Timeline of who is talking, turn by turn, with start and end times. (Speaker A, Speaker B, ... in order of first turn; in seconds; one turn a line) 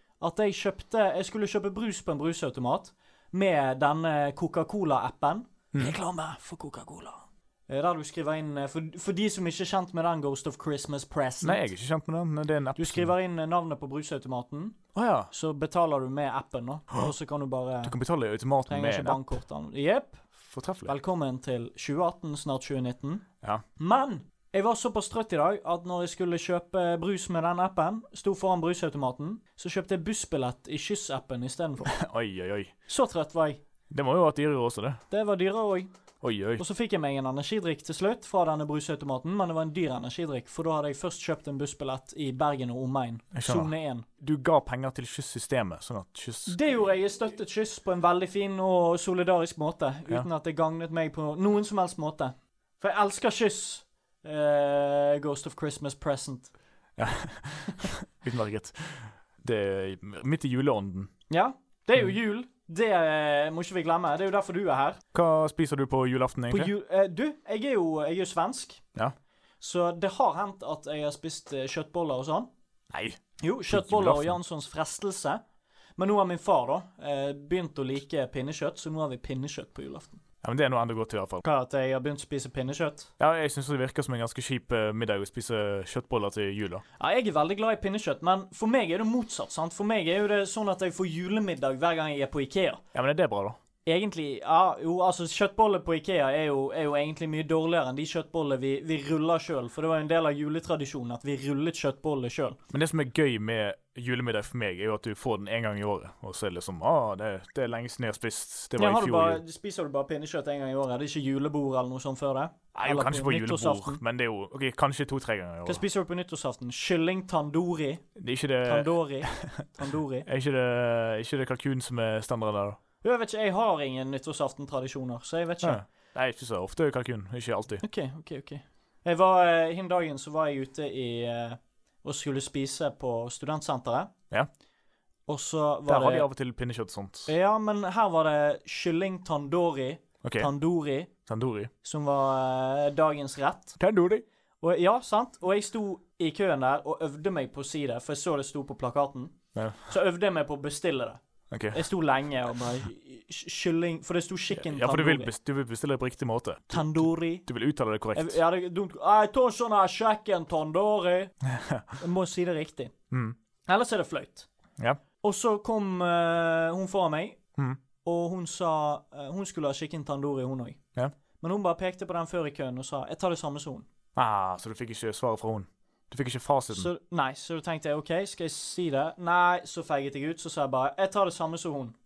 Speaker A: 0.2-11.7
Speaker B: 11.4-13.1
Speaker A: 12.8-14.8
Speaker B: 14.9-15.3
Speaker A: 15.3-17.9
Speaker B: 17.8-19.2
Speaker A: 18.7-20.3
Speaker B: 20.5-20.9
Speaker A: 20.9-23.2
Speaker A: 23.8-31.9
Speaker B: 31.9-32.7
Speaker A: 32.9-33.6
Speaker B: 33.9-35.0
Speaker A: 35.1-35.9
Speaker B: 36.2-36.6
Speaker A: 36.6-44.1
Speaker B: 43.3-46.6
Speaker A: 46.5-56.5
Speaker B: 57.0-61.1
Speaker A: 61.3-65.0
Speaker B: 65.1-66.7
Speaker A: 66.5-68.8
Speaker A: 69.6-72.5
Speaker B: 72.9-74.4
Speaker A: 73.4-75.4
Speaker A: 76.0-80.2
Speaker B: 80.4-81.4
Speaker A: 81.4-83.1
Speaker B: 83.2-86.8
Speaker A: 87.0-92.8
Speaker B: 92.9-93.6
Speaker A: 93.8-102.6
Speaker B: 102.7-109.4
Speaker A: 108.8-114.0
Speaker B: 112.7-115.8
Speaker A: 115.7-118.1
Speaker B: 118.2-119.6
Speaker A: 118.6-120.3
Speaker B: 120.2-122.8
Speaker A: 123.0-125.8
Speaker B: 125.6-127.8
Speaker A: 127.8-134.1
Speaker A: 135.3-136.3
Speaker B: 135.9-137.3
Speaker A: 137.2-141.1
Speaker B: 140.2-140.5
Speaker B: 141.2-141.7
Speaker A: 141.8-143.8
Speaker B: 143.8-144.2
Speaker A: 144.6-151.2
Speaker B: 149.6-149.9
Speaker B: 151.5-151.8
Speaker A: 151.7-155.3
Speaker B: 154.5-158.4
Speaker A: 156.7-157.5
Speaker A: 158.1-161.3
Speaker B: 161.4-161.9
Speaker A: 162.0-162.9
Speaker B: 163.1-163.4
Speaker A: 163.7-164.5
Speaker A: 165.2-167.4
Speaker A: 168.0-170.8
Speaker A: 171.4-173.9
Speaker B: 174.2-176.9
Speaker A: 176.7-182.0